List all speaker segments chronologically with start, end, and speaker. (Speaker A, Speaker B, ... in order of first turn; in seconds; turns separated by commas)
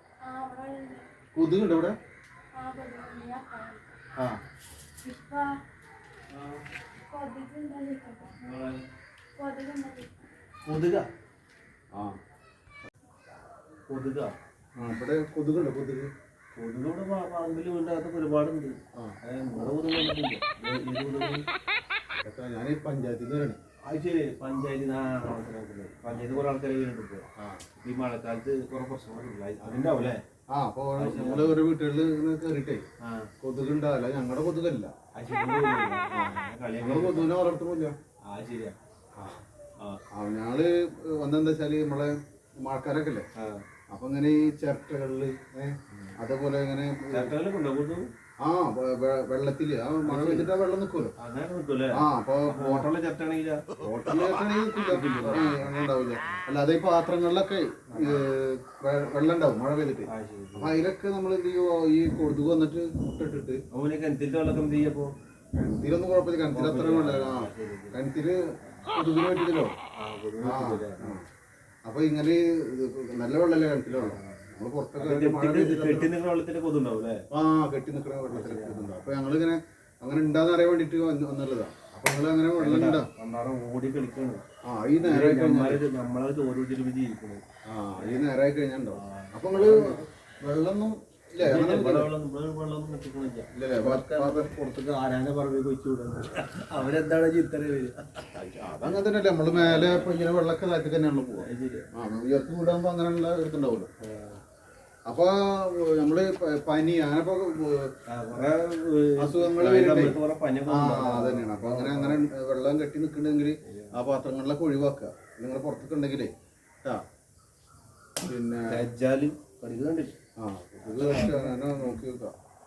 Speaker A: 0.2-1.1, Speaker B: 1.3-2.0, Speaker A: 2.5-3.8, Speaker A: 5.0-5.6, Speaker C: 6.3-6.6, Speaker A: 7.0-8.4, Speaker C: 8.4-8.8, Speaker A: 9.4-10.2, Speaker C: 10.7-11.1, Speaker C: 13.9-14.3, Speaker B: 14.8-16.1, Speaker C: 16.5-21.4, Speaker B: 18.9-19.7, Speaker B: 22.2-23.6, Speaker C: 23.9-27.2, Speaker B: 27.4-27.6, Speaker C: 27.8-30.2, Speaker B: 29.6-29.9, Speaker B: 30.5-32.8, Speaker C: 31.0-31.6, Speaker C: 33.0-33.3, Speaker B: 33.4-34.9, Speaker C: 35.1-37.3, Speaker B: 36.1-38.0, Speaker C: 38.3-38.8, Speaker B: 39.1-39.4, Speaker B: 40.1-43.3, Speaker C: 43.3-43.6, Speaker B: 43.9-47.3, Speaker C: 47.1-48.1, Speaker B: 48.4-51.1, Speaker C: 50.0-50.5, Speaker C: 51.2-53.7, Speaker B: 51.9-52.9, Speaker B: 53.8-63.6, Speaker C: 54.8-55.7, Speaker C: 57.9-58.2, Speaker C: 60.1-60.8, Speaker C: 63.7-65.1, Speaker B: 65.5-69.7, Speaker C: 66.5-68.0, Speaker C: 70.0-71.2, Speaker B: 70.4-71.3, Speaker B: 71.8-76.1, Speaker C: 74.0-74.5, Speaker C: 75.0-77.2, Speaker B: 77.3-83.1, Speaker C: 78.2-79.2, Speaker C: 82.6-84.4, Speaker B: 84.6-85.8, Speaker C: 85.0-87.4, Speaker B: 87.7-92.1, Speaker C: 88.0-88.2, Speaker C: 88.9-90.1, Speaker C: 91.4-98.3, Speaker B: 93.5-94.5, Speaker B: 98.3-103.9, Speaker C: 99.5-100.1, Speaker C: 101.4-101.9, Speaker C: 104.0-104.4, Speaker B: 105.0-108.4, Speaker C: 108.1-112.3, Speaker B: 109.2-116.3, Speaker C: 113.6-114.0, Speaker B: 118.2-118.8, Speaker C: 118.7-120.1, Speaker B: 120.4-122.3, Speaker C: 120.8-122.0